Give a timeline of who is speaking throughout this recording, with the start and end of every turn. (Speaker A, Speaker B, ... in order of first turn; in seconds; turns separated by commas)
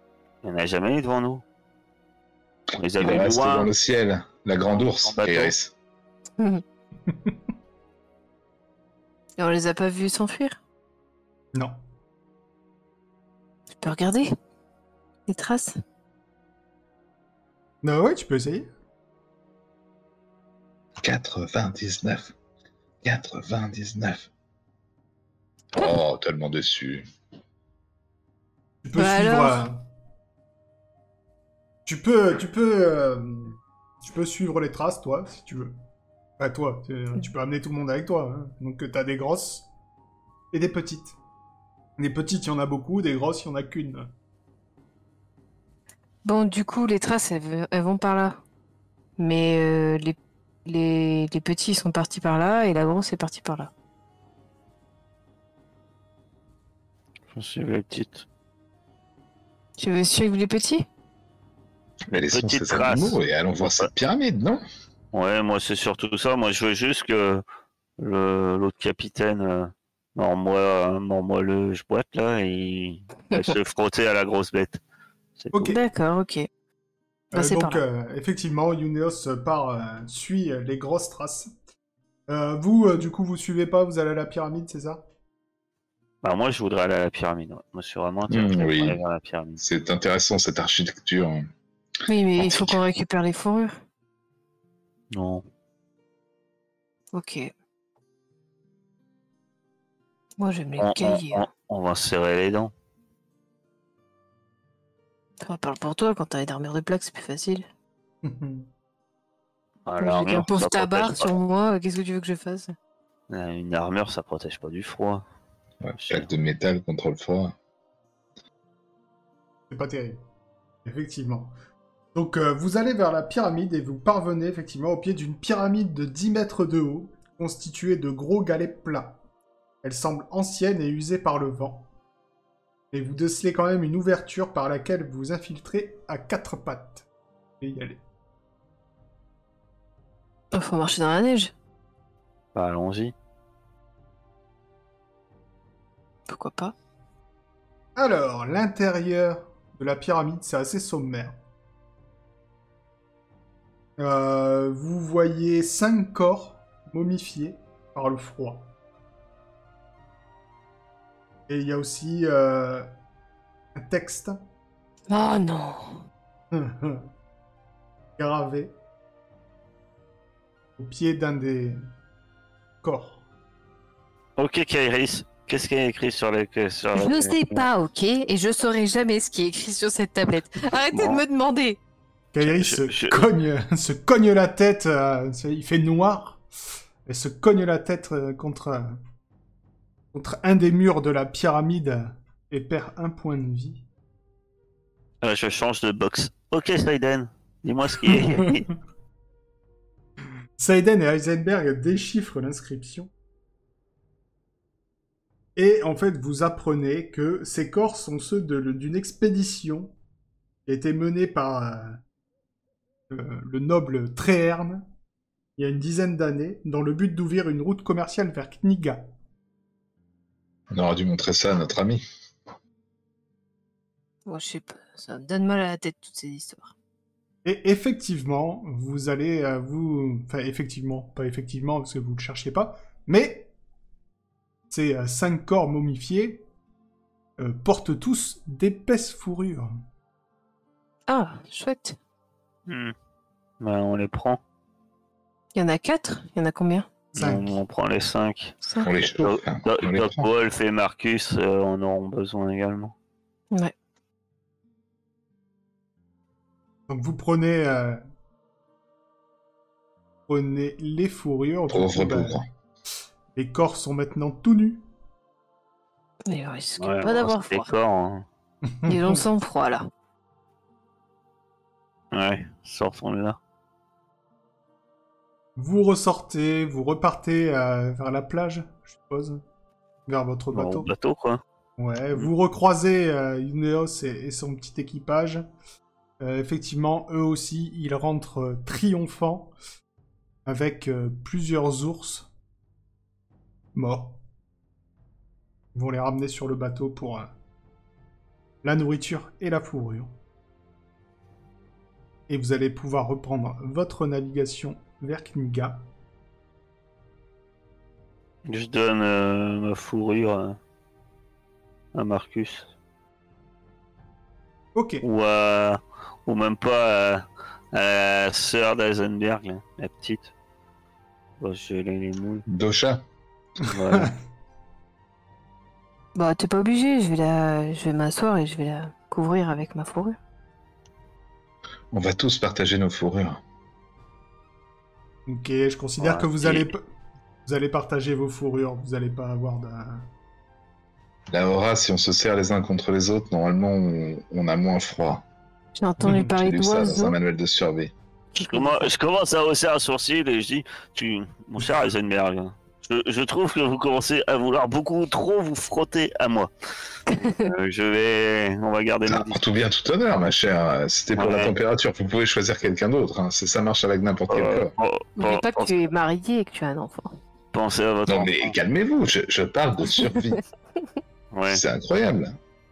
Speaker A: 0.4-1.4, Speaker A: 2.8-3.7, Speaker B: 3.0-5.7, Speaker A: 5.0-5.5, Speaker C: 9.4-10.6, Speaker C: 13.8-14.3, Speaker C: 15.3-15.8, Speaker D: 17.8-18.7, Speaker B: 21.0-22.3, Speaker B: 23.0-24.3, Speaker B: 25.7-27.1, Speaker D: 28.8-29.8, Speaker C: 28.9-29.6, Speaker D: 31.9-35.7, Speaker D: 36.4-39.7, Speaker D: 40.5-41.1, Speaker D: 42.0-44.1, Speaker C: 46.2-48.4, Speaker C: 49.2-53.7, Speaker A: 57.3-58.2, Speaker C: 59.8-60.9, Speaker B: 62.1-64.6, Speaker A: 62.1-63.2, Speaker A: 65.1-67.4, Speaker A: 68.0-74.8, Speaker A: 75.4-75.8, Speaker C: 75.5-76.5, Speaker C: 77.3-77.8, Speaker D: 77.3-81.5, Speaker D: 82.3-85.0, Speaker A: 86.2-89.6, Speaker B: 88.3-89.0, Speaker B: 89.6-91.5, Speaker C: 92.1-93.7, Speaker B: 92.4-92.7, Speaker A: 95.1-95.4, Speaker C: 97.1-97.5, Speaker C: 100.4-101.5, Speaker A: 100.8-102.7, Speaker C: 105.4-107.7, Speaker D: 108.2-108.7, Speaker A: 109.8-111.3, Speaker C: 110.0-112.7, Speaker A: 113.3-115.2, Speaker B: 115.8-117.5, Speaker A: 116.0-116.3, Speaker D: 119.7-120.2, Speaker D: 120.8-121.5, Speaker D: 122.1-129.2, Speaker D: 129.8-131.9, Speaker D: 132.9-137.1, Speaker D: 137.6-138.0, Speaker C: 140.5-141.5, Speaker A: 142.5-143.1, Speaker C: 146.3-146.7, Speaker D: 147.9-151.4, Speaker D: 154.0-158.7, Speaker D: 161.5-162.9, Speaker D: 163.8-164.4, Speaker C: 165.1-166.0, Speaker D: 166.5-167.1, Speaker D: 168.2-168.7, Speaker D: 170.8-171.8, Speaker D: 172.8-173.2, Speaker A: 174.4-177.7, Speaker C: 176.9-181.8, Speaker A: 180.9-181.2, Speaker D: 182.3-186.4, Speaker A: 182.4-183.3, Speaker D: 187.1-189.0, Speaker D: 190.1-193.8, Speaker A: 195.2-198.7, Speaker D: 198.1-198.6, Speaker D: 200.6-203.1, Speaker D: 205.6-209.9, Speaker D: 210.7-212.0, Speaker D: 213.1-214.8, Speaker D: 215.6-219.1, Speaker B: 220.7-222.0, Speaker C: 224.3-226.7, Speaker D: 227.4-233.5, Speaker D: 234.7-236.4, Speaker D: 237.4-239.7, Speaker C: 241.1-242.0, Speaker A: 242.7-242.9, Speaker A: 243.6-244.4, Speaker C: 245.5-246.9, Speaker A: 247.1-248.6, Speaker D: 247.2-247.6, Speaker B: 248.8-250.3, Speaker A: 249.2-252.9, Speaker D: 256.9-258.0, Speaker D: 260.3-262.4, Speaker B: 261.7-262.4, Speaker D: 263.3-264.9, Speaker C: 266.3-267.6, Speaker A: 266.8-268.2, Speaker D: 268.7-269.2, Speaker C: 268.9-269.9, Speaker A: 272.1-273.4, Speaker D: 275.6-279.4, Speaker D: 280.1-280.9, Speaker A: 280.5-281.4, Speaker D: 281.8-285.5, Speaker D: 286.2-289.5, Speaker D: 290.4-292.3, Speaker D: 293.7-294.2, Speaker D: 295.7-297.3, Speaker D: 298.6-300.1, Speaker D: 302.3-305.9, Speaker A: 308.4-310.6, Speaker A: 311.9-312.7, Speaker D: 314.7-315.0, Speaker A: 315.0-320.3, Speaker A: 321.4-322.4, Speaker B: 322.5-323.0, Speaker A: 323.6-324.1, Speaker C: 326.1-330.2, Speaker B: 331.9-333.4, Speaker D: 335.3-336.8, Speaker A: 336.0-336.7, Speaker D: 337.4-340.1, Speaker B: 341.3-345.2, Speaker C: 345.8-347.2, Speaker D: 346.0-346.3, Speaker B: 346.3-347.9, Speaker C: 348.4-348.9, Speaker A: 348.4-356.5, Speaker C: 357.1-357.5, Speaker A: 357.4-359.4, Speaker B: 359.1-364.7, Speaker A: 361.1-361.6, Speaker A: 364.3-365.8, Speaker C: 365.2-367.2, Speaker A: 367.5-368.5, Speaker B: 368.1-370.4, Speaker A: 371.3-371.6, Speaker B: 371.5-372.4